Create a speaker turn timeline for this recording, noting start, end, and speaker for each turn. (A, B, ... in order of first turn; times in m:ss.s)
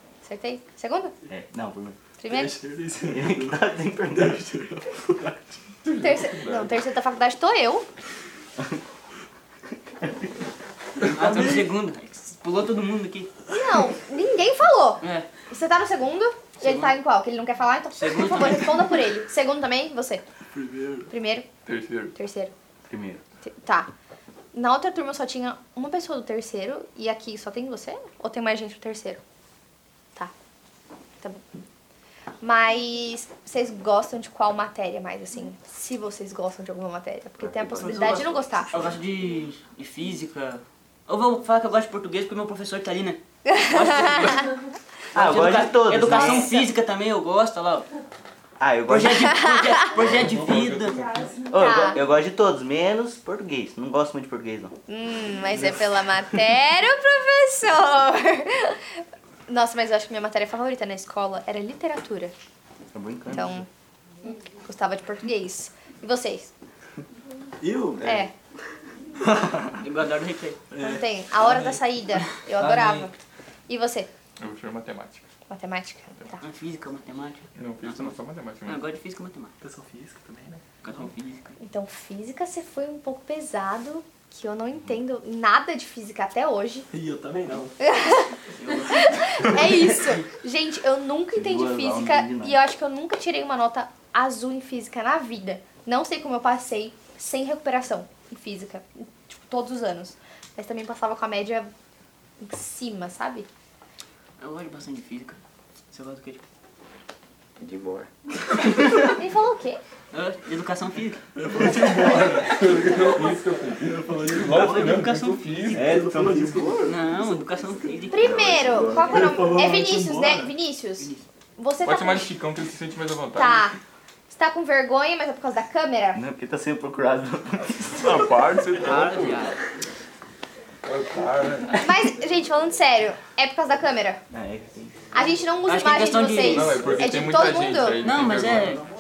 0:00.2-0:01.2 A
0:01.3-0:02.0 B
0:02.2-0:02.6 A
0:02.3-0:05.8 C
0:03.1-0:04.4 B
0:05.8-0:06.7 D
0:06.0-0:07.9 A
0:11.0-0:13.3 E
0:11.3-0:11.5 C
0:13.5-0:20.2 A
0:15.0-0:15.3 E
0:16.6-0:17.0 E
0:18.0-0:18.9 E
0:20.5-0:21.1 C
0:21.1-0:21.5 A
0:21.6-0:22.1 D
0:22.2-0:22.5 A
0:22.9-0:23.2 B
0:23.4-0:23.9 A
0:24.5-0:29.2 A
0:32.4-0:38.7 A
0:37.5-0:38.9 B
0:37.8-0:44.5 E
0:45.1-0:46.5 B
0:45.1-0:47.9 E
0:46.1-0:46.7 A
0:48.6-0:49.4 B
0:48.9-0:51.0 E
0:50.0-0:51.4 D
0:51.5-0:54.8 B
0:51.5-0:52.0 A
0:54.9-1:02.3 A
1:02.9-1:03.6 B
1:03.3-1:03.7 A
1:04.6-1:06.5 A
1:07.6-1:08.0 C
1:08.0-1:08.3 B
1:08.0-1:08.3 A
1:09.2-1:09.8 C
1:09.8-1:10.6 E
1:10.7-1:11.8 C
1:10.8-1:13.2 A
1:12.6-1:13.1 C
1:13.7-1:14.1 A
1:14.4-1:15.2 D
1:15.5-1:16.4 A
1:16.4-1:19.6 E
1:17.6-1:18.8 D
1:19.6-1:20.6 C
1:20.8-1:21.6 E
1:21.6-1:26.9 A
1:26.9-1:27.8 C
1:27.8-1:28.3 A
1:28.6-1:29.2 E
1:28.9-1:41.7 A
1:31.4-1:32.6 B
1:42.4-1:43.5 A
1:44.4-1:45.4 E
1:45.9-1:46.4 E
1:47.6-1:48.1 B
1:49.0-1:49.8 A
1:50.1-1:51.2 E
1:51.4-1:55.0 C
1:52.5-1:55.9 D
1:54.4-1:55.9 E
1:55.7-1:57.0 B
1:55.7-1:57.0 C
1:56.8-1:58.3 E
1:58.1-2:02.3 A
1:58.2-1:59.2 B
1:59.0-2:00.5 C
2:01.8-2:03.7 D
2:03.4-2:03.8 A
2:04.3-2:06.2 A
2:06.1-2:08.3 B
2:08.0-2:09.5 D
2:08.8-2:09.6 E
2:10.8-2:11.8 D
2:11.8-2:14.2 A
2:14.3-2:15.0 B
2:15.1-2:18.0 A
2:15.7-2:16.8 E
2:16.4-2:18.8 D
2:18.0-2:18.8 E